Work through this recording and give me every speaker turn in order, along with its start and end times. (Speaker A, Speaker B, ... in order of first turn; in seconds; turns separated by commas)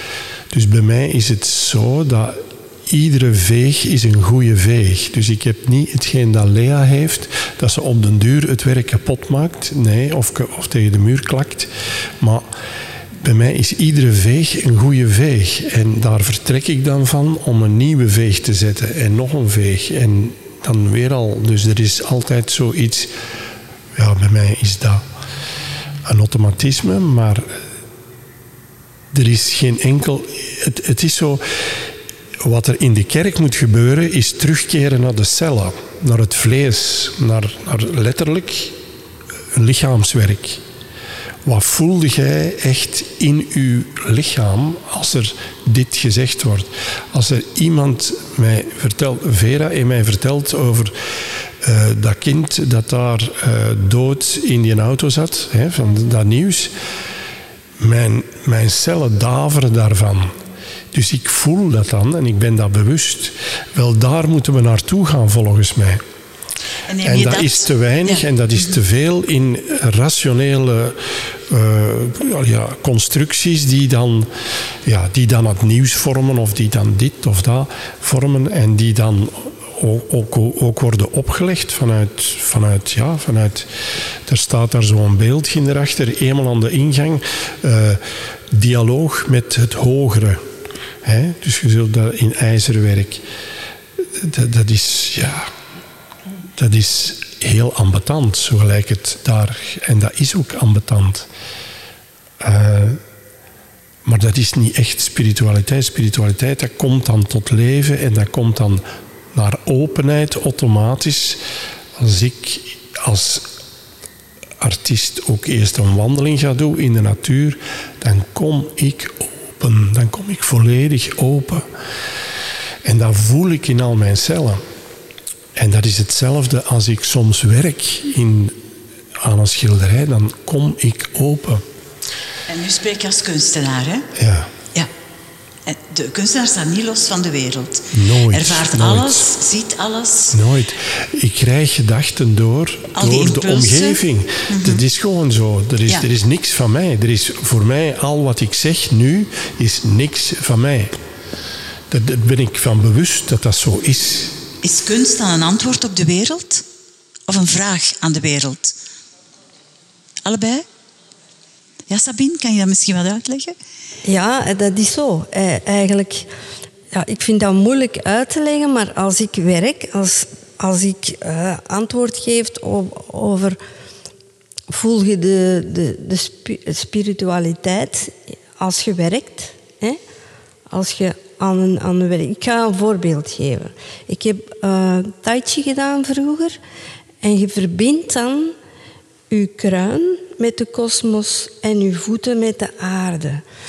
Speaker A: 0.5-12.5, Speaker A: 13.2-23.1, Speaker A: 23.9-25.0, Speaker A: 26.1-27.6, Speaker A: 29.1-31.4, Speaker A: 32.4-38.8, Speaker A: 39.5-40.6, Speaker A: 41.4-50.9, Speaker A: 51.6-56.8, Speaker A: 57.8-60.3, Speaker A: 60.9-66.0, Speaker B: 66.9-68.7, Speaker A: 67.0-71.0, Speaker A: 71.5-74.3, Speaker A: 74.8-83.7, Speaker A: 84.2-90.4, Speaker A: 91.0-93.2, Speaker A: 94.2-95.5, Speaker A: 96.6-101.3, Speaker A: 102.4-103.0, Speaker A: 104.0-111.4, Speaker A: 112.0-113.5, Speaker A: 114.6-121.7, Speaker A: 122.8-124.6, Speaker A: 125.5-128.6, Speaker A: 129.2-131.6, Speaker B: 132.5-134.1, Speaker A: 134.2-134.5, Speaker B: 135.7-140.4, Speaker A: 137.9-139.3, Speaker A: 140.3-150.9, Speaker B: 142.9-144.8, Speaker A: 151.9-154.3, Speaker B: 154.6-156.6, Speaker B: 157.3-158.8, Speaker B: 160.2-160.6, Speaker B: 161.9-163.5, Speaker C: 164.0-166.3, Speaker C: 166.9-173.6, Speaker C: 174.7-180.0, Speaker C: 180.7-186.6, Speaker C: 187.2-188.6, Speaker C: 189.3-193.4